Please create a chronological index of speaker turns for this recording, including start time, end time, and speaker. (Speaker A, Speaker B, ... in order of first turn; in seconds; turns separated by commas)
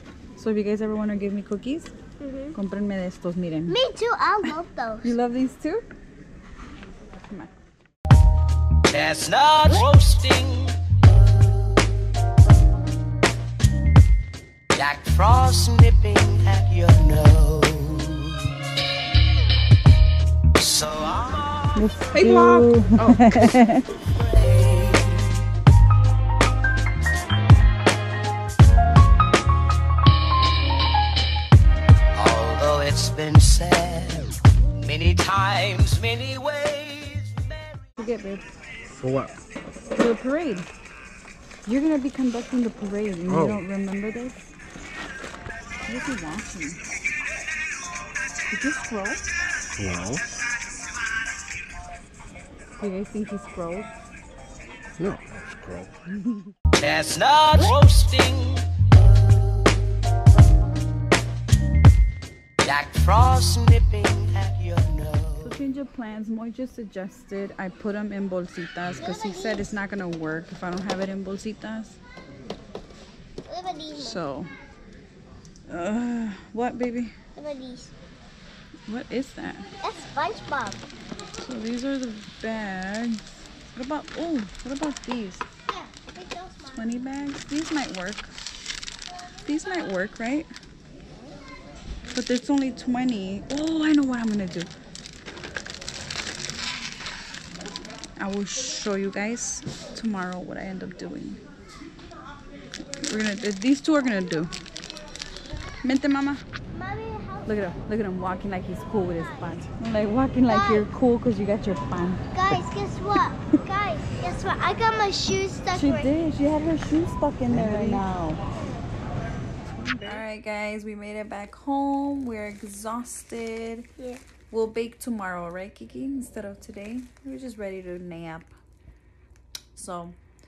Speaker A: 0.4-1.9, Speaker B: 2.2-2.6, Speaker A: 2.5-3.8, Speaker B: 3.7-5.1, Speaker A: 4.4-5.8, Speaker C: 8.9-10.8, Speaker C: 14.7-18.5, Speaker C: 20.6-21.9, Speaker A: 21.8-24.0, Speaker C: 24.1-25.4, Speaker C: 32.1-37.8, Speaker A: 38.0-38.4, Speaker D: 39.0-39.3, Speaker A: 40.0-40.7, Speaker A: 41.6-44.4, Speaker D: 43.3-43.6, Speaker A: 45.9-46.8, Speaker A: 48.5-49.2, Speaker D: 49.8-50.2, Speaker A: 52.8-53.9, Speaker D: 55.0-55.9, Speaker C: 56.8-58.7, Speaker C: 62.6-65.6, Speaker A: 65.4-72.0, Speaker B: 69.0-69.7, Speaker B: 73.5-74.2, Speaker A: 74.0-74.5, Speaker A: 75.7-77.2, Speaker B: 77.3-77.9, Speaker A: 78.9-79.7, Speaker B: 79.8-80.8, Speaker A: 81.4-85.5, Speaker B: 85.7-86.9, Speaker A: 86.8-88.3, Speaker A: 89.5-90.5, Speaker A: 92.1-94.7, Speaker A: 98.2-101.4, Speaker A: 103.0-104.5, Speaker A: 105.8-106.4, Speaker B: 106.7-107.5, Speaker A: 107.5-112.6, Speaker B: 110.5-110.9, Speaker B: 112.3-116.1, Speaker A: 115.7-118.4, Speaker B: 119.7-120.2, Speaker A: 120.0-123.9, Speaker A: 124.5-128.5, Speaker A: 129.8-130.2